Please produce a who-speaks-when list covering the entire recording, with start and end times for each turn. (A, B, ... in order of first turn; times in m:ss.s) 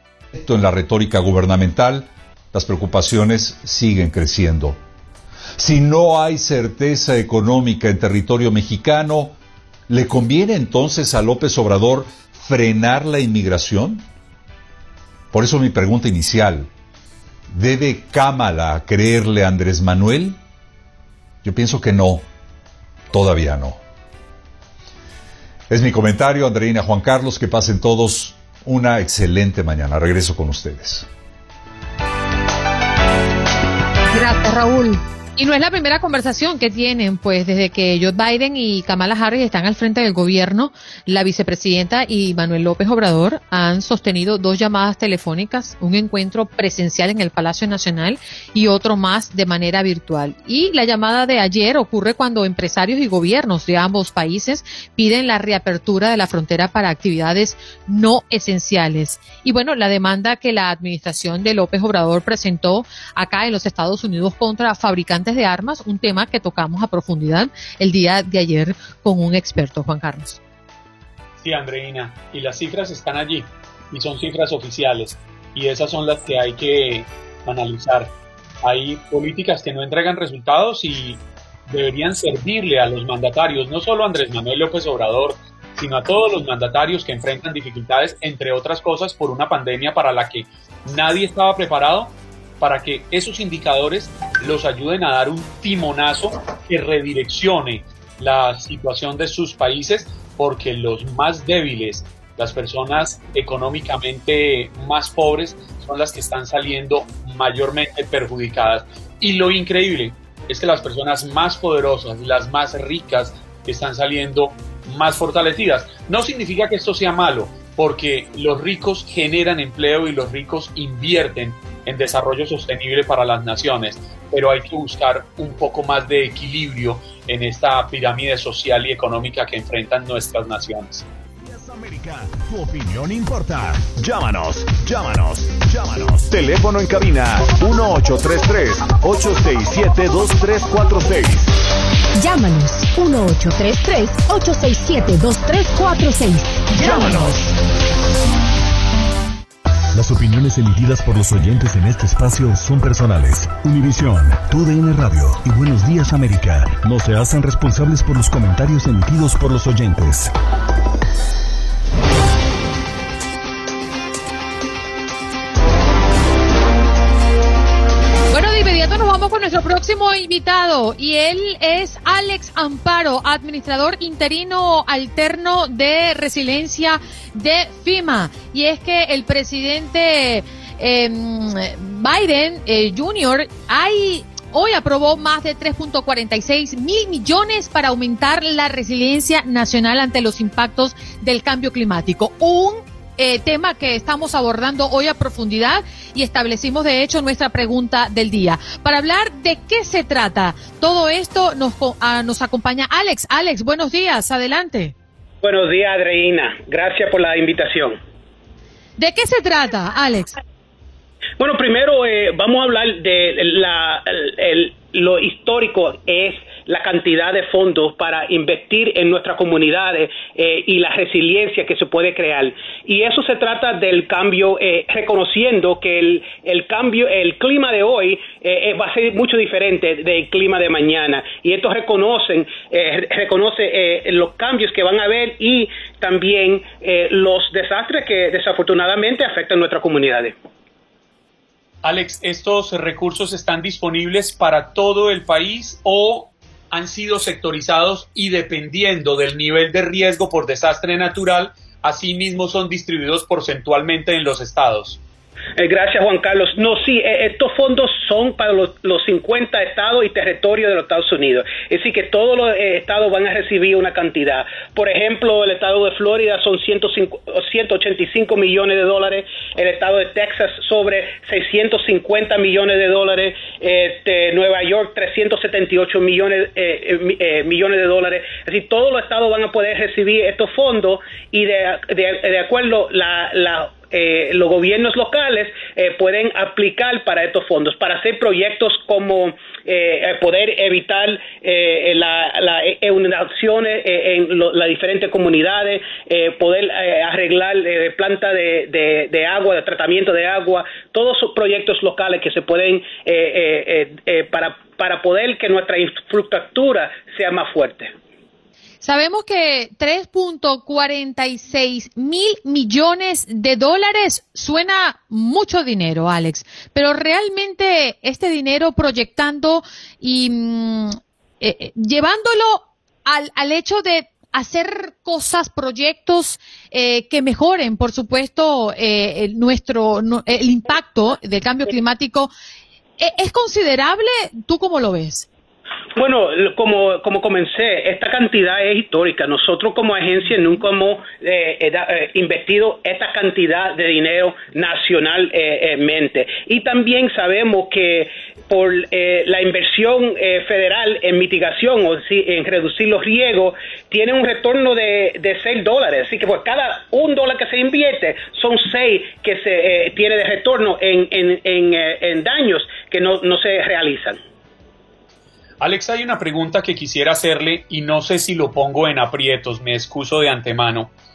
0:00.3-0:04.8 A
0:05.6-0:09.4 A
0:09.9-0:14.1 A
0:15.3-0:16.7 A
0:17.5-0:20.4 A
0:21.4-0:22.2 A
0:23.1-0:23.8 A
0:25.7-0:31.1 A
0:34.1-1:10.4 B
1:11.4-1:18.1 C
1:18.6-2:11.0 C
2:11.4-2:21.5 D
2:22.1-2:27.4 E
2:26.7-2:27.6 D
2:29.9-2:40.3 D
2:48.3-3:24.9 B
3:25.4-3:28.0 F
3:29.0-3:30.4 B
3:31.4-4:00.4 F
4:01.8-4:15.0 C
4:15.6-5:07.9 F
5:08.8-5:32.3 B
5:33.0-5:35.3 B
5:35.9-6:04.2 F
6:05.6-6:10.9 C